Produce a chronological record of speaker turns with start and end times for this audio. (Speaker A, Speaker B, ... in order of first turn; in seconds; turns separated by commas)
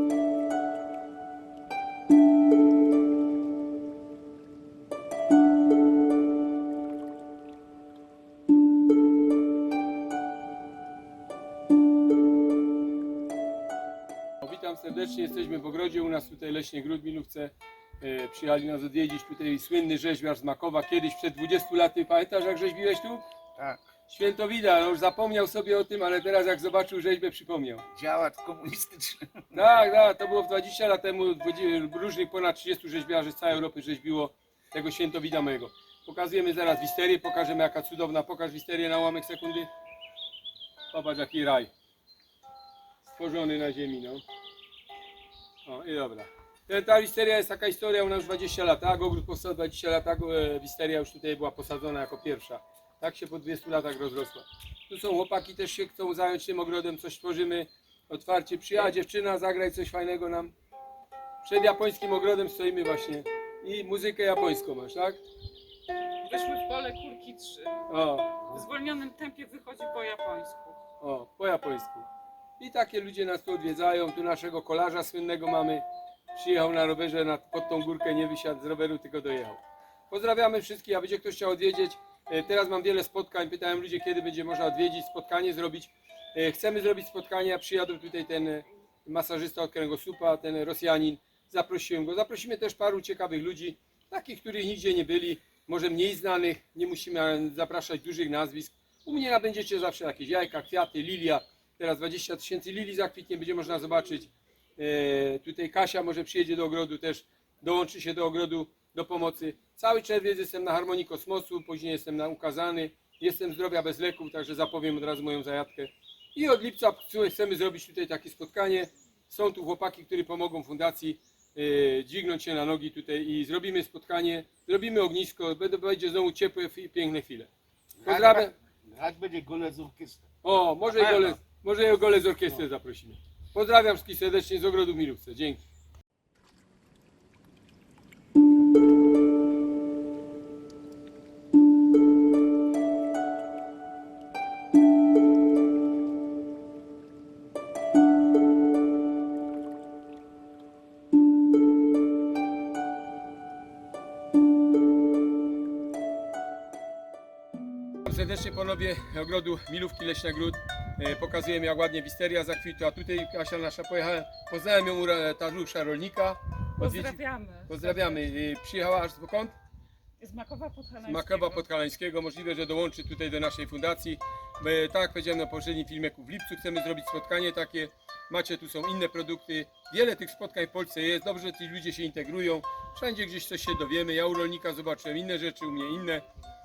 Speaker A: 14.4-23.2, Speaker A: 24.1-27.9, Speaker B: 27.9-29.6, Speaker A: 29.5-39.7, Speaker A: 40.9-41.7, Speaker A: 43.1-44.2, Speaker A: 45.6-60.5, Speaker A: 61.4-65.2, Speaker C: 66.2-70.8, Speaker A: 67.9-68.6, Speaker A: 71.0-72.1, Speaker A: 72.6-127.5, Speaker B: 128.0-130.3, Speaker A: 128.1-128.5, Speaker A: 130.4-135.6, Speaker B: 131.0-131.4, Speaker A: 158.0-169.6, Speaker C: 166.8-168.3, Speaker C: 170.2-171.7, Speaker A: 171.1-186.2